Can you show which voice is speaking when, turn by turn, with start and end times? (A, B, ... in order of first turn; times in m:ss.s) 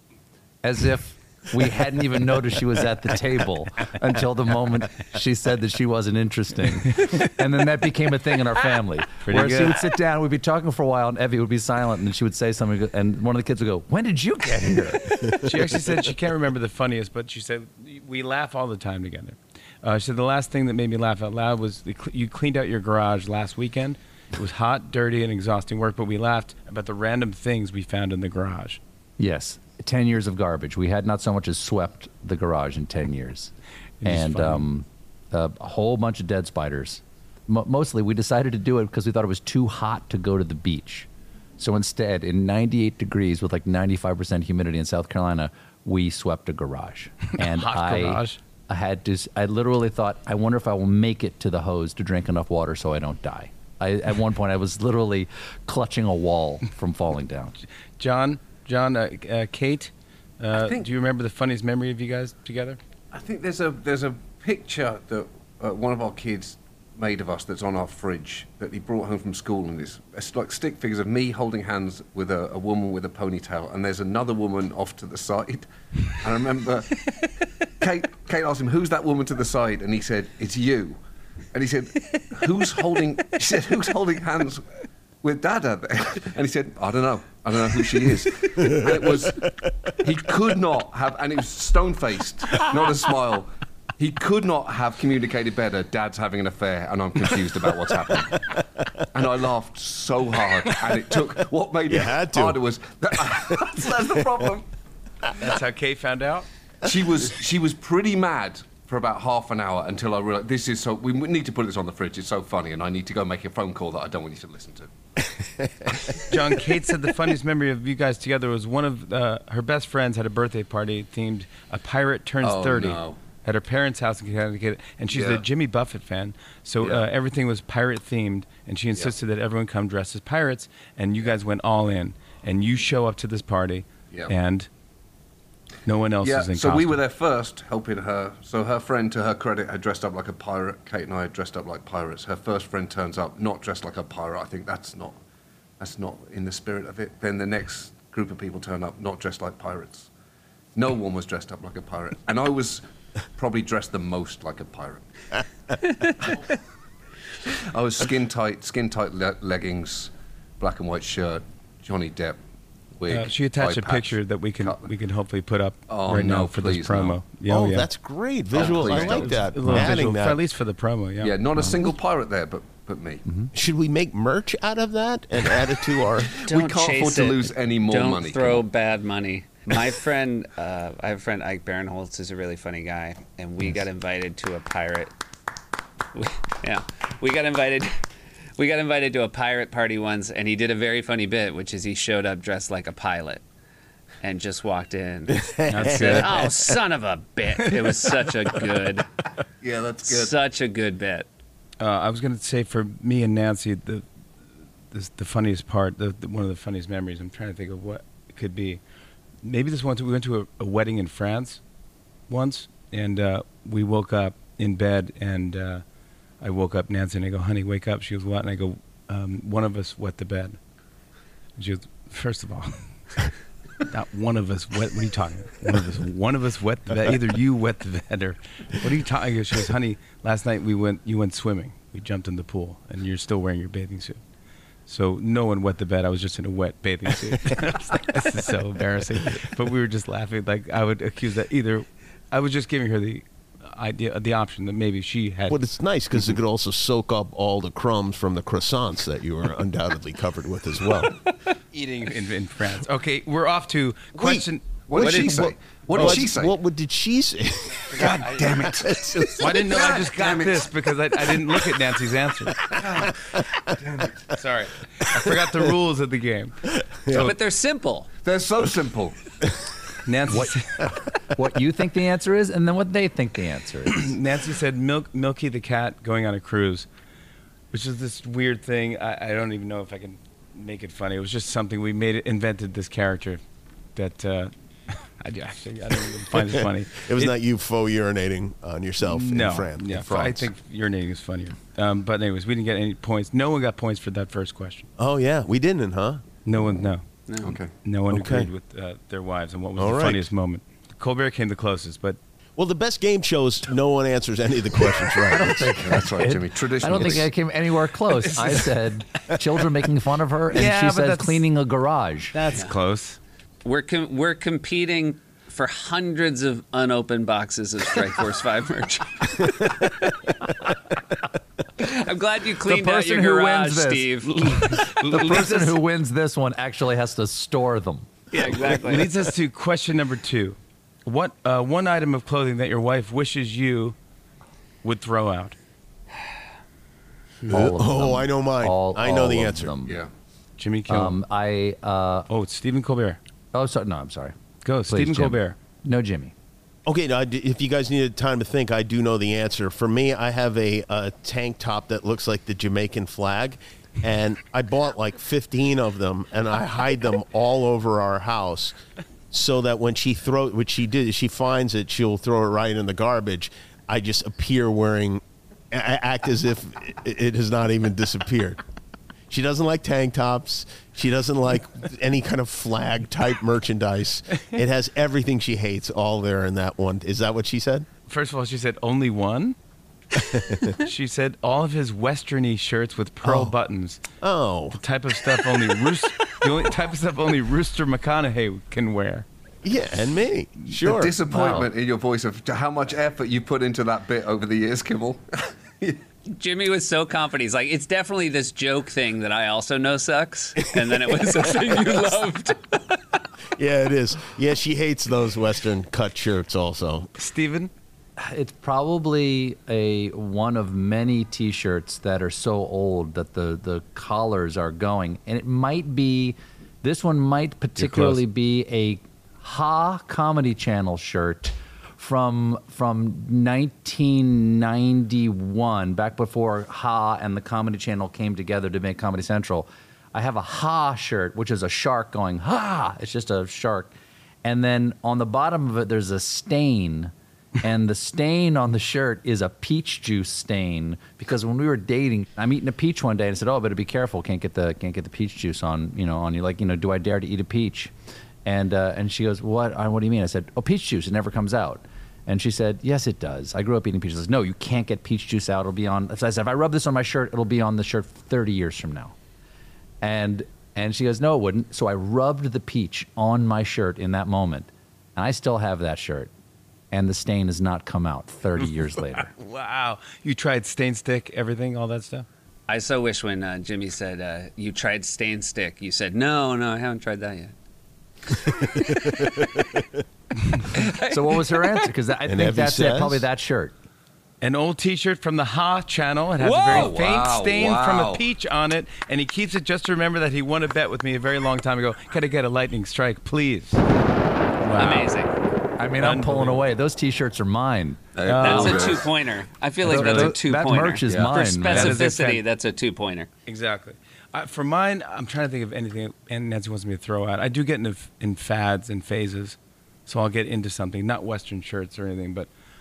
0:00.6-0:15.3 A
0:09.2-0:09.8 B
0:15.3-0:28.8 B
0:29.2-0:57.6 A
0:34.0-0:34.7 B
0:47.3-0:48.4 B
0:58.0-1:02.8 B
1:00.6-1:00.9 C
1:03.1-1:17.0 C
1:17.8-1:21.0 C
1:21.5-1:24.6 C
1:25.2-1:29.4 C
1:28.7-1:29.1 D
1:30.0-1:38.4 C
1:39.1-1:44.7 C
1:41.9-1:42.6 D
1:43.2-1:44.4 D
1:45.4-1:46.5 B
1:46.8-1:54.9 C
1:55.6-1:55.9 D
1:56.3-2:14.7 B
2:02.4-2:03.2 C
2:05.1-2:05.4 C
2:15.9-2:17.0 B
2:16.2-2:25.2 C
2:25.8-2:30.1 C
2:30.8-2:32.8 C
2:33.4-2:35.1 C
2:37.4-2:42.4 C
2:43.0-2:44.9 C
2:43.1-2:47.9 B
2:45.9-2:47.2 C
2:47.5-2:50.4 D
2:48.5-2:49.4 C
2:48.6-2:51.4 B
2:51.2-2:53.2 C
2:53.5-2:56.4 D
2:56.4-3:05.1 E
2:56.4-2:58.6 C
3:06.1-3:08.0 E
3:08.6-3:13.4 E
3:14.2-3:19.1 E
3:15.3-3:16.8 D
3:15.7-3:16.5 B
3:17.6-3:18.1 B
3:19.6-3:20.4 C
3:20.0-3:21.3 E
3:21.8-3:24.0 B
3:24.9-3:28.8 B
3:29.4-3:31.6 B
3:32.3-3:35.8 B
3:36.4-3:40.6 B
3:41.6-3:54.2 B
3:54.9-4:05.6 B
4:05.5-4:11.2 D
4:11.7-4:14.6 B
4:14.2-4:19.7 D
4:14.9-4:16.6 C
4:15.9-4:16.2 B
4:17.9-4:20.7 C
4:19.4-4:22.6 B
4:22.6-4:23.1 D
4:22.8-4:23.2 C
4:23.8-4:24.1 C
4:24.4-4:27.4 B
4:27.1-4:28.1 E
4:28.2-4:29.2 C
4:30.0-4:30.9 B
4:30.3-4:34.1 A
4:33.9-4:36.9 B
4:37.7-4:43.4 B
4:44.0-4:47.3 B
4:46.4-4:50.5 D
4:49.0-4:54.9 B
4:55.0-4:56.2 D
4:56.4-4:57.0 B
4:57.3-4:57.6 E
4:57.4-4:57.7 C
4:57.7-5:02.2 B
4:58.1-4:58.5 D
4:59.8-5:00.3 D
5:02.6-5:05.7 D
5:05.3-5:12.4 A
5:05.8-5:07.3 C
5:08.3-5:08.6 B
5:10.5-5:11.4 B
5:12.3-5:13.2 B
5:13.6-5:20.3 E
5:21.8-5:24.3 E
5:22.6-5:28.1 A
5:24.2-5:25.8 B
5:28.3-5:29.1 E
5:28.5-5:34.0 B
5:34.8-5:35.6 B
5:37.5-5:40.0 A
5:37.5-5:39.8 D
5:40.6-5:41.2 B
5:40.9-5:42.3 A
5:42.3-5:43.2 B
5:43.5-5:44.4 A
5:44.6-5:45.6 B
5:44.9-5:46.3 A
5:46.9-5:58.8 D
5:59.3-6:08.6 D
6:09.3-6:17.9 D
6:18.1-6:19.6 B
6:20.2-6:20.8 D
6:20.7-6:24.0 B
6:23.2-6:23.5 D
6:24.2-6:24.8 D
6:24.7-6:29.3 B
6:29.6-6:31.2 D
6:30.8-6:36.0 C
6:31.3-6:31.7 A
6:36.3-6:43.0 E
6:43.6-6:47.1 D
6:47.2-6:47.7 B
6:48.2-7:27.9 A
6:57.8-6:58.2 B
7:28.4-7:39.2 A
7:40.0-7:46.3 A
7:46.9-7:49.3 A
7:49.3-7:52.3 B
7:52.7-7:57.5 E
7:58.3-7:59.4 E
7:58.6-7:59.8 D
8:00.4-8:00.7 B
8:00.7-8:01.9 E
8:01.0-8:03.8 A
8:02.3-8:03.2 D
8:04.4-8:13.8 B
8:06.4-8:06.9 E
8:06.7-8:08.2 C
8:14.6-8:15.1 B
8:14.8-8:15.3 E
8:15.8-8:18.0 A
8:16.0-8:16.7 B
8:18.2-8:19.1 C
8:18.2-8:19.0 B
8:18.4-8:23.3 E
8:19.8-8:22.0 A
8:19.8-8:20.3 B
8:21.1-8:21.4 C
8:21.6-8:22.4 B
8:23.5-8:32.5 B